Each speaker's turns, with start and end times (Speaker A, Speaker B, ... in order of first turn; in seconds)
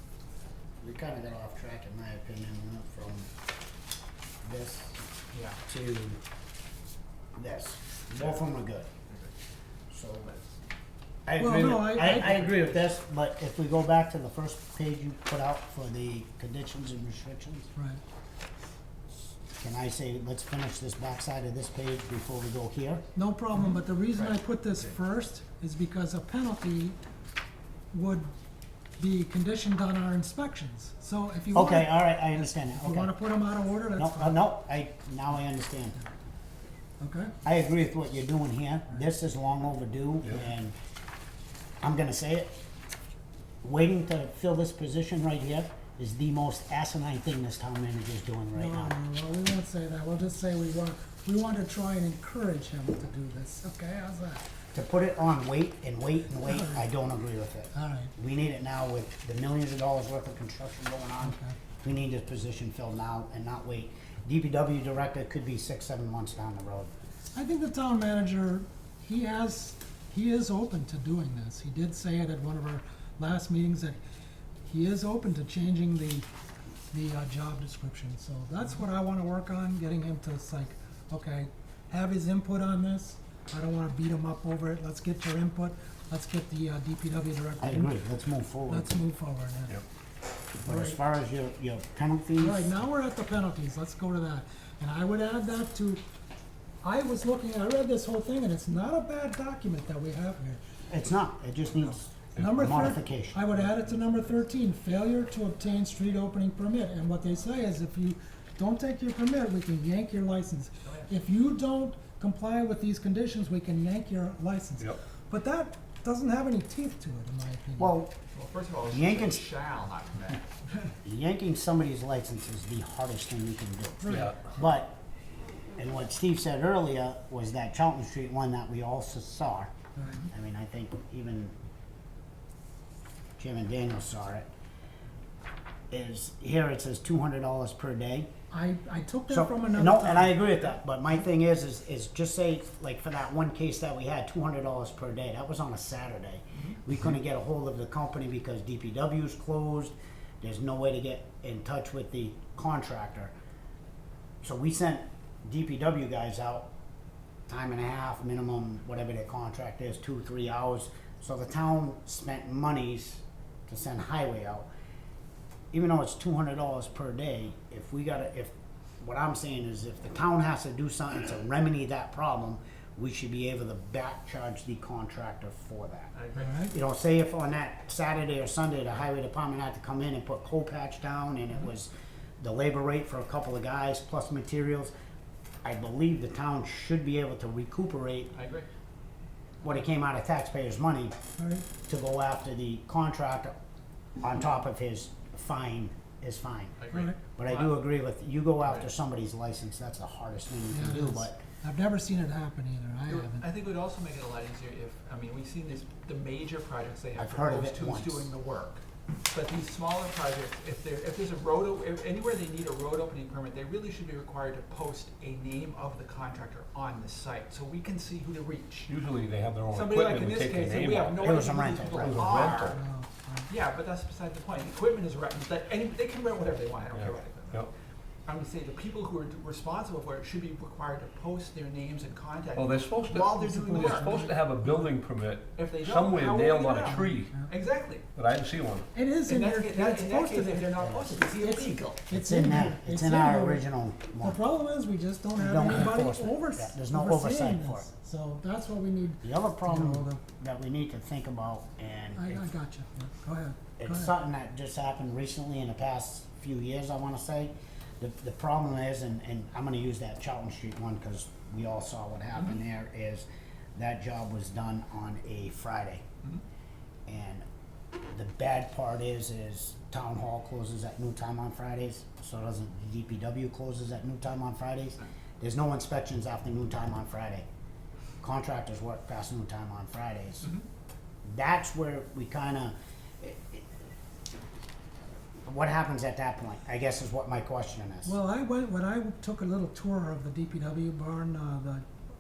Speaker A: 0.8-3.3, 4.4-5.1, 5.7-6.2, 7.4-8.9, 9.9-10.4, 11.3-17.7, 19.6-23.0, 31.5-33.1, 34.0-36.0, 37.4-40.8, 41.8-42.6, 43.6-49.0, 54.7-66.9, 87.6-89.0, 90.6-92.8, 100.9-103.5, 117.8-118.1, 118.9-119.5, 121.0-125.0, 125.8-129.7, 130.3-131.5, 133.4-134.5, 135.9-138.3, 139.3-153.3, 154.4-156.7, 157.5-164.7, 165.7-176.1, 176.7-184.9, 185.6-188.3, 189.6-191.1, 191.9-193.5, 194.2-196.8, 197.4-201.4, 207.2-208.3, 221.2-222.3, 240.8-241.1, 242.1-244.4, 245.4-247.9, 249.2-252.5, 253.8-266.0, 267.1-267.4, 268.1-277.5, 278.2-280.5, 281.2-283.6, 285.5-288.2
Speaker B: 5.3-5.6, 110.8-111.1, 118.3-120.9, 176.2-176.7, 188.3-188.7, 196.8-197.7, 203.1-218.9, 219.7-222.8, 223.5-227.7, 228.3-234.2, 235.6-238.1, 239.3-242.0
Speaker C: 11.4-12.7, 17.8-18.0, 23.1-27.0, 27.9-28.3, 29.0-34.4, 37.0-37.3, 48.5-54.4, 56.4-56.9, 57.7-58.1, 61.2-61.5, 67.3-74.0, 74.7-76.3, 76.9-87.9, 88.7-89.8, 90.6-91.0, 92.4-96.0, 96.8-100.6, 102.4-118.0, 124.0-124.5, 130.0-130.2, 138.5-140.5, 176.4-176.7, 191.4-191.7, 196.9-197.2, 200.7-203.5, 222.7-223.5, 233.2-234.9, 236.9-237.5, 238.9-240.7, 241.3-243.7, 244.2-250.2, 252.2-254.1, 288.1-291.9
Speaker D: 124.1-124.3, 218.9-222.8, 226.9-227.7, 232.6-237.3, 238.2-238.9